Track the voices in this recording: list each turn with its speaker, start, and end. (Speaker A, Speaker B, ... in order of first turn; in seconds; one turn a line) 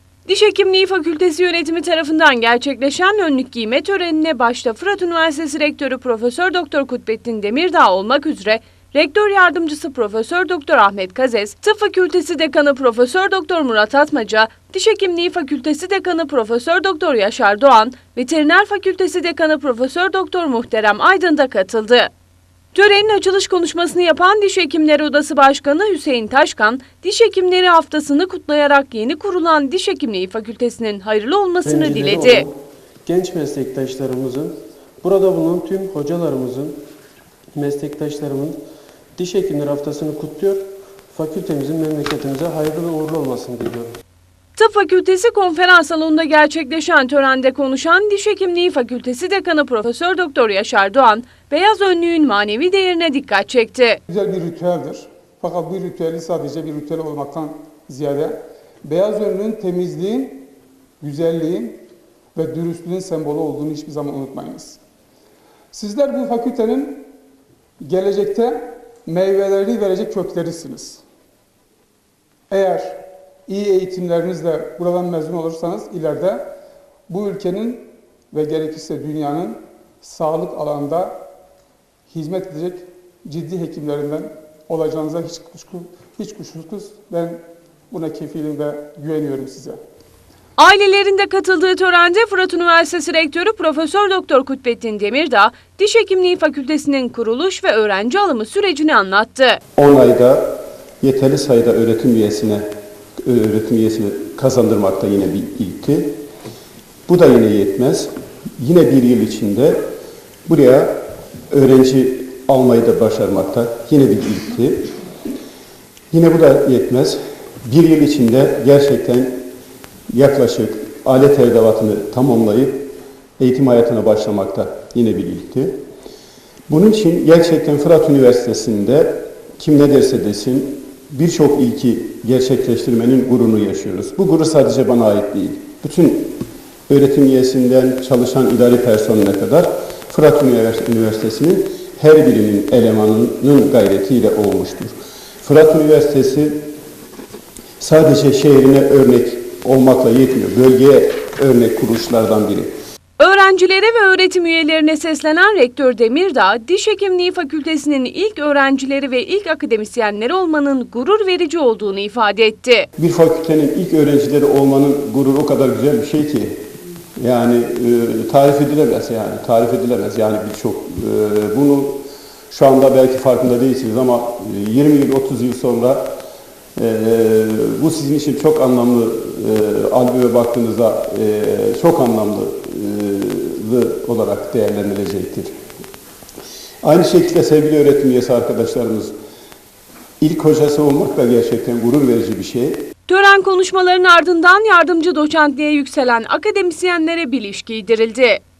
Speaker A: 0.3-22.1
Speaker A: 22.7-32.5
Speaker B: 31.6-32.5
Speaker B: 33.1-36.8
Speaker B: 37.5-38.6
Speaker B: 39.2-43.9
Speaker A: 44.6-54.0
Speaker C: 54.1-60.5
Speaker C: 61.0-61.8
Speaker C: 62.4-64.8
Speaker C: 65.7-67.1
Speaker C: 67.8-71.0
Speaker C: 72.5-76.5
Speaker C: 77.1-81.2
Speaker C: 82.1-89.8
Speaker A: 90.6-99.6
Speaker D: 99.8-102.6
Speaker D: 103.2-106.1
Speaker D: 107.1-109.8
Speaker D: 110.5-111.0
Speaker D: 111.5-114.9
Speaker D: 116.1-119.4
Speaker D: 120.1-125.8
Speaker D: 126.7-146.6
Speaker D: 147.8-152.7
Speaker A: 153.2-162.9
Speaker D: 163.0-166.6
Speaker D: 167.2-172.0
Speaker D: 172.5-176.1
Speaker D: 176.8-185.5
Speaker D: 186.8-189.1
Speaker D: 190.2-192.8
Speaker A: 193.1-198.4